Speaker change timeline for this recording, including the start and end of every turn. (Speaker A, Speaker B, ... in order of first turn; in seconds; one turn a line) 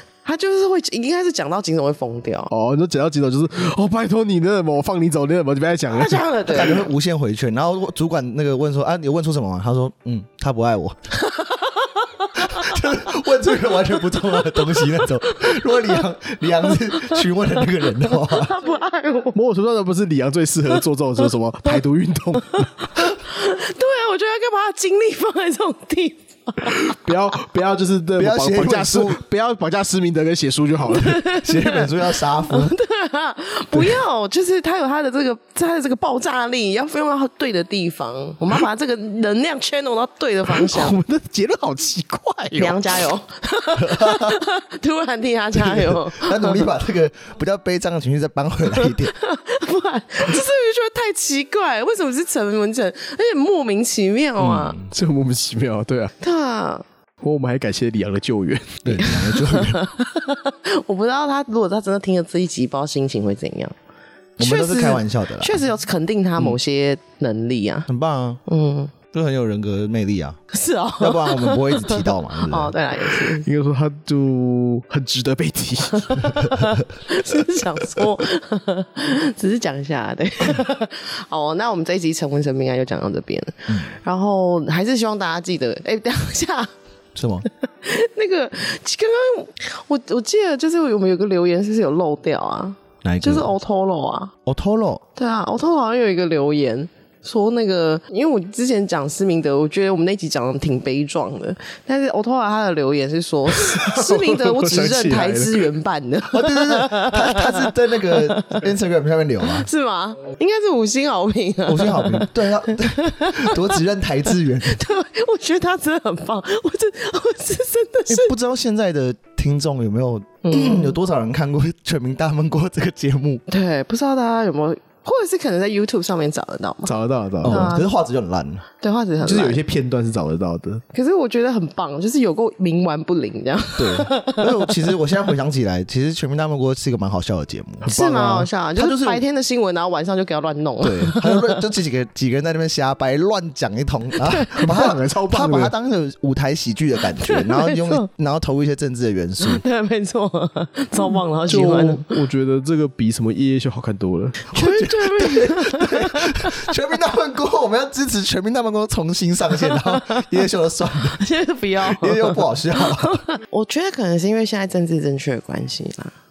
Speaker A: 0.2-2.5
Speaker B: 2.5-6.3
Speaker A: 5.9-6.8
Speaker C: 6.5-10.9
Speaker A: 11.1-16.0
Speaker C: 12.4-18.5
Speaker A: 16.6-19.4
Speaker B: 19.3-22.9
Speaker A: 22.8-27.0
Speaker B: 26.6-31.2
Speaker C: 28.2-29.2
Speaker A: 30.9-41.0
Speaker C: 31.1-32.7
Speaker B: 40.5-43.0
Speaker A: 42.5-46.7
Speaker C: 43.8-44.4
Speaker C: 46.1-49.1
Speaker A: 48.7-54.8
Speaker C: 54.4-54.9
Speaker B: 54.9-56.1
Speaker A: 56.2-56.8
Speaker B: 57.2-59.0
Speaker C: 58.8-59.8
Speaker A: 59.0-63.7
Speaker C: 64.4-65.6
Speaker A: 64.4-67.9
Speaker C: 67.9-68.4
Speaker A: 68.5-68.9
Speaker C: 69.1-70.4
Speaker A: 70.5-73.5
Speaker C: 71.0-72.7
Speaker B: 73.4-76.5
Speaker A: 76.0-86.7
Speaker C: 87.1-87.5
Speaker A: 87.6-94.3
Speaker C: 93.0-93.5
Speaker C: 94.5-95.0
Speaker A: 95.2-108.6
Speaker B: 103.5-105.7
Speaker C: 106.3-109.7
Speaker A: 109.4-113.7
Speaker C: 111.7-114.8
Speaker A: 114.6-118.3
Speaker C: 118.1-123.4
Speaker A: 120.4-121.0
Speaker A: 123.5-127.9
Speaker B: 126.8-127.7
Speaker C: 127.4-128.6
Speaker A: 128.8-129.6
Speaker B: 129.2-130.8
Speaker A: 130.9-134.8
Speaker C: 133.8-137.9
Speaker B: 137.8-138.5
Speaker A: 137.9-141.6
Speaker C: 138.7-139.2
Speaker C: 140.8-149.6
Speaker A: 144.2-144.7
Speaker B: 144.6-145.7
Speaker A: 147.2-148.1
Speaker A: 149.4-152.2
Speaker B: 151.5-154.5
Speaker A: 154.5-156.7
Speaker C: 154.5-161.2
Speaker A: 159.5-160.3
Speaker A: 161.2-166.1
Speaker C: 161.8-163.2